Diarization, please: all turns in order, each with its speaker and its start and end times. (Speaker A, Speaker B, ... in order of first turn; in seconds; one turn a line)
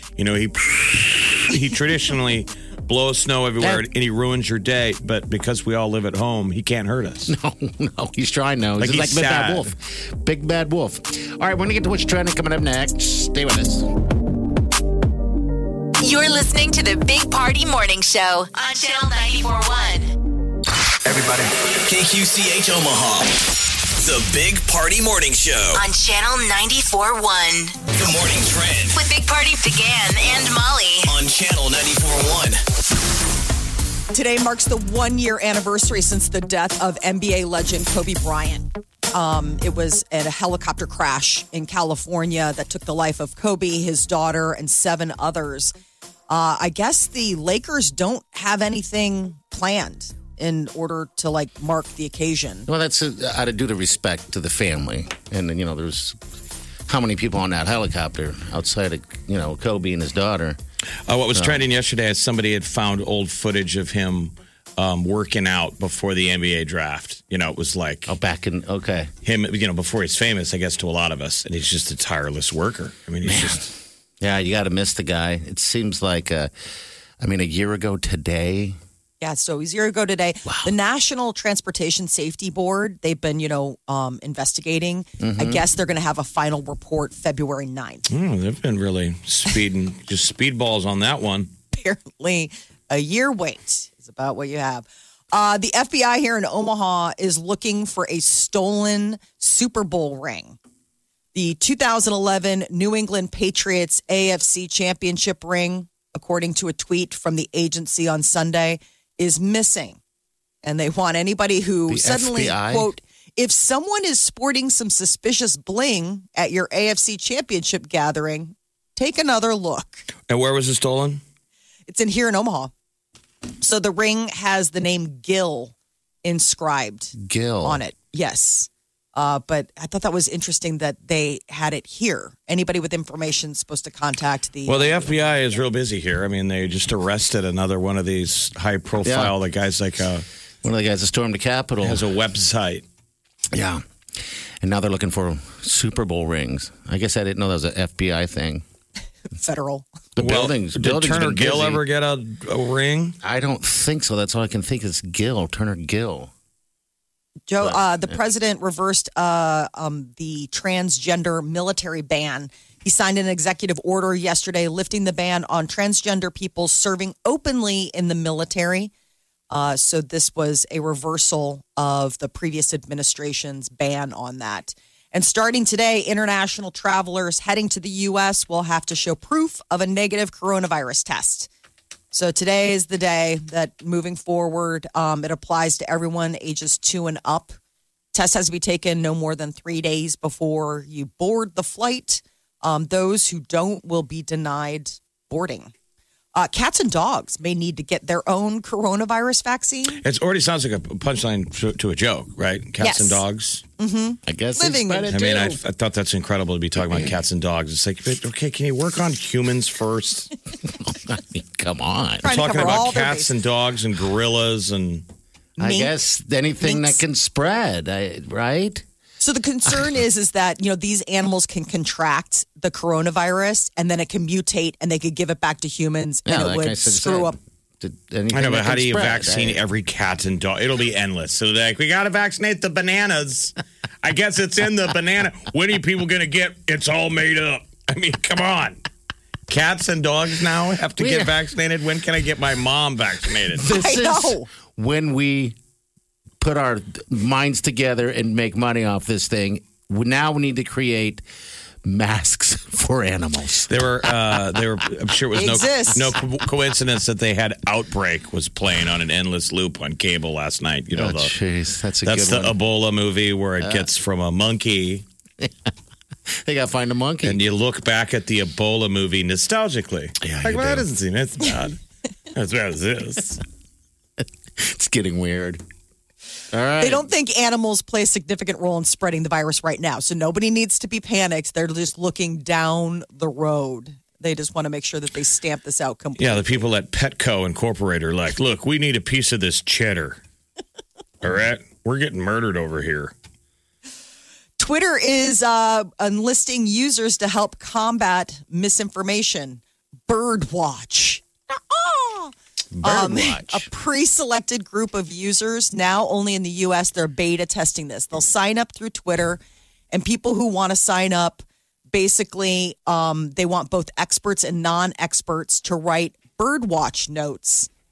Speaker A: 0.2-7.3
Speaker B: 3.6-3.9
Speaker B: 7.3-13.9
Speaker A: 8.8-9.6
Speaker C: 16.0-20.1
Speaker D: 21.0-23.4
Speaker D: 24.0-25.8
Speaker C: 25.7-27.9
Speaker D: 27.9-29.0
Speaker C: 28.9-31.1
Speaker D: 31.1-32.6
Speaker E: 34.1-45.7
Speaker E: 46.3-52.7
Speaker B: 52.7-56.2
Speaker B: 56.9-60.6
Speaker A: 61.1-68.1
Speaker B: 61.3-61.6
Speaker B: 68.1-69.1
Speaker A: 69.2-73.7
Speaker B: 73.2-73.7
Speaker B: 74.2-76.5
Speaker B: 77.2-78.8
Speaker E: 79.2-88.1
Speaker B: 80.5-80.7
Speaker B: 85.2-85.6
Speaker A: 88.1-91.5
Speaker E: 91.7-100.6
Speaker E: 101.3-110.0
Speaker E: 110.6-120.1
Speaker B: 111.9-112.9
Speaker A: 120.3-121.2
Speaker E: 121.9-122.7
Speaker E: 123.6-135.3
Speaker B: 127.2-127.8
Speaker A: 134.7-140.2
Speaker B: 139.0-139.3
Speaker B: 140.6-142.0
Speaker A: 141.8-142.8
Speaker B: 143.5-143.8
Speaker B: 144.6-148.6
Speaker E: 149.3-149.9
Speaker B: 150.2-151.8
Speaker A: 150.2-153.2
Speaker B: 153.2-156.3
Speaker E: 157.5-168.9
Speaker B: 157.6-157.9
Speaker E: 169.5-181.5
Speaker E: 182.1-187.5
Speaker E: 188.1-195.7
Speaker E: 196.3-200.0
Speaker A: 200.0-203.6
Speaker E: 202.8-203.2
Speaker E: 203.8-205.2
Speaker B: 204.2-205.6
Speaker A: 205.1-210.3
Speaker B: 206.9-207.2
Speaker B: 210.8-212.4
Speaker E: 212.2-213.3
Speaker A: 212.2-215.0
Speaker E: 215.6-215.9
Speaker B: 215.6-218.8
Speaker E: 216.6-217.0
Speaker E: 219.2-227.4
Speaker B: 226.2-229.6
Speaker A: 228.3-238.8
Speaker A: 239.5-243.7
Speaker B: 241.0-241.3
Speaker B: 243.5-245.6
Speaker E: 243.7-244.5
Speaker B: 246.4-251.2
Speaker B: 251.8-254.1
Speaker A: 253.7-261.3
Speaker E: 255.3-256.1
Speaker B: 260.9-262.6
Speaker A: 262.0-265.0
Speaker B: 263.6-263.9
Speaker B: 265.4-265.7
Speaker B: 266.3-267.4
Speaker A: 267.2-271.8
Speaker B: 270.2-270.9
Speaker A: 272.3-273.4
Speaker B: 274.6-275.6
Speaker B: 276.5-277.1
Speaker E: 276.8-286.6
Speaker A: 286.2-290.2
Speaker A: 291.2-293.1
Speaker E: 294.6-309.4
Speaker B: 302.8-303.7
Speaker E: 309.9-317.7